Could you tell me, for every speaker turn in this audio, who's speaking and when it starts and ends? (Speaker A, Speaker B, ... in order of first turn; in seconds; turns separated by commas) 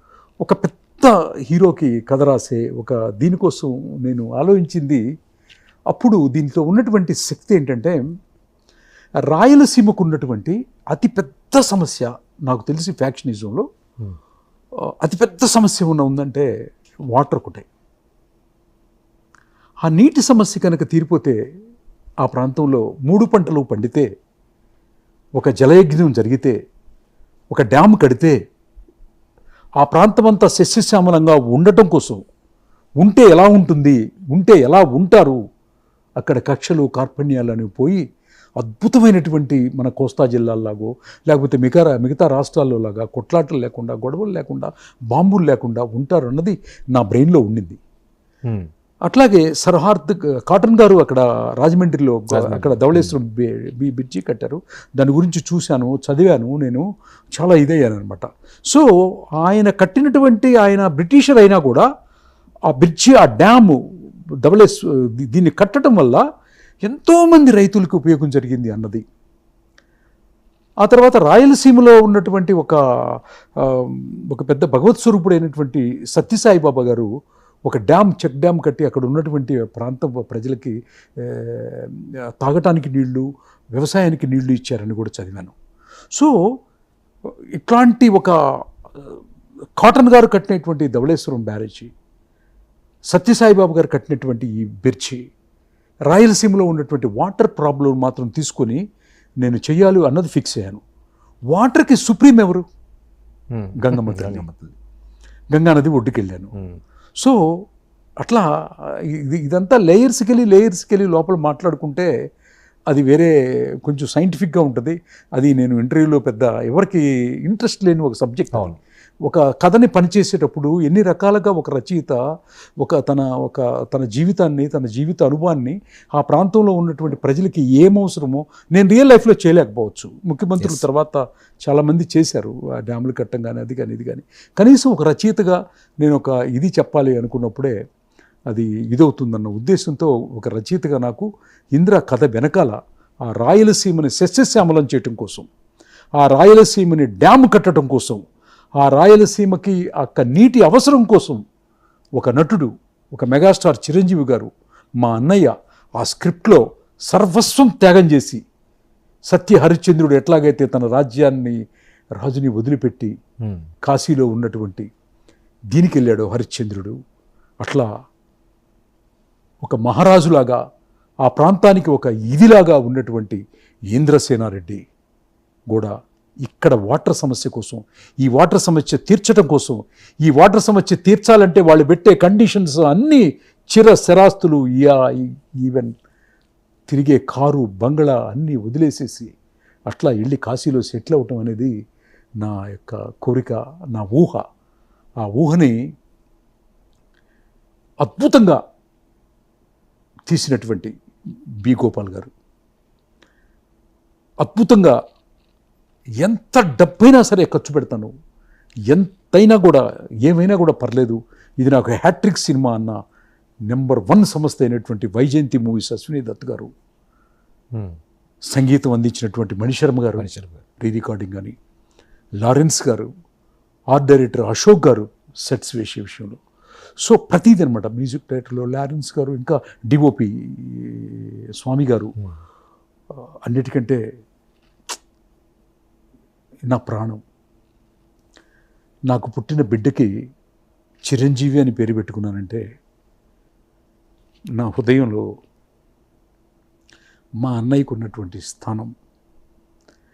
Speaker A: 0.4-5.0, Speaker A: 5.9-8.0, Speaker A: 9.3-13.7, Speaker A: 15.0-16.5, Speaker A: 17.1-17.6, Speaker A: 19.8-21.4, Speaker A: 22.2-24.1, Speaker A: 25.4-26.6, Speaker A: 27.5-28.4, Speaker A: 29.8-32.2, Speaker A: 33.0-35.4, Speaker A: 36.2-38.0, Speaker A: 38.6-47.8, Speaker A: 49.1-58.9, Speaker B: 52.3-53.1, Speaker A: 59.4-61.9, Speaker A: 62.7-63.8, Speaker A: 64.4-66.2, Speaker A: 66.8-69.0, Speaker A: 70.8-77.1, Speaker A: 77.7-85.5, Speaker A: 87.5-88.4, Speaker A: 89.8-91.9, Speaker A: 93.1-95.2, Speaker A: 96.1-98.8, Speaker A: 99.4-100.8, Speaker A: 101.5-102.6, Speaker B: 103.5-104.7, Speaker A: 103.8-104.5, Speaker A: 105.5-106.5, Speaker B: 106.5-106.8, Speaker A: 108.2-112.1, Speaker A: 112.9-113.3, Speaker A: 113.8-118.7, Speaker B: 118.5-118.8, Speaker A: 119.2-122.2, Speaker A: 122.8-137.7, Speaker B: 130.6-130.8, Speaker A: 138.5-142.8, Speaker A: 143.3-145.5, Speaker A: 146.2-148.2, Speaker A: 148.8-151.4, Speaker A: 152.2-154.5, Speaker A: 155.0-158.4, Speaker A: 159.3-161.6, Speaker A: 162.2-163.1, Speaker B: 163.4-163.7, Speaker A: 163.8-164.9, Speaker A: 165.7-166.9, Speaker A: 167.6-167.9, Speaker A: 169.6-170.6, Speaker A: 171.2-173.4, Speaker A: 173.9-174.8, Speaker A: 175.7-185.9, Speaker A: 186.9-189.3, Speaker A: 189.9-191.7, Speaker A: 192.4-194.4, Speaker A: 195.2-195.8, Speaker A: 198.0-198.6, Speaker A: 200.3-200.9, Speaker A: 201.6-202.3, Speaker A: 204.4-205.0, Speaker A: 206.2-208.1, Speaker A: 208.9-213.0, Speaker A: 213.7-216.7, Speaker A: 218.5-220.3, Speaker B: 220.2-220.6, Speaker A: 220.8-221.5, Speaker A: 222.4-223.1, Speaker A: 223.9-226.4, Speaker A: 227.0-232.1, Speaker A: 233.4-234.0, Speaker A: 236.7-237.2, Speaker A: 239.1-240.1, Speaker A: 241.1-242.6, Speaker A: 244.6-245.2, Speaker A: 247.4-248.9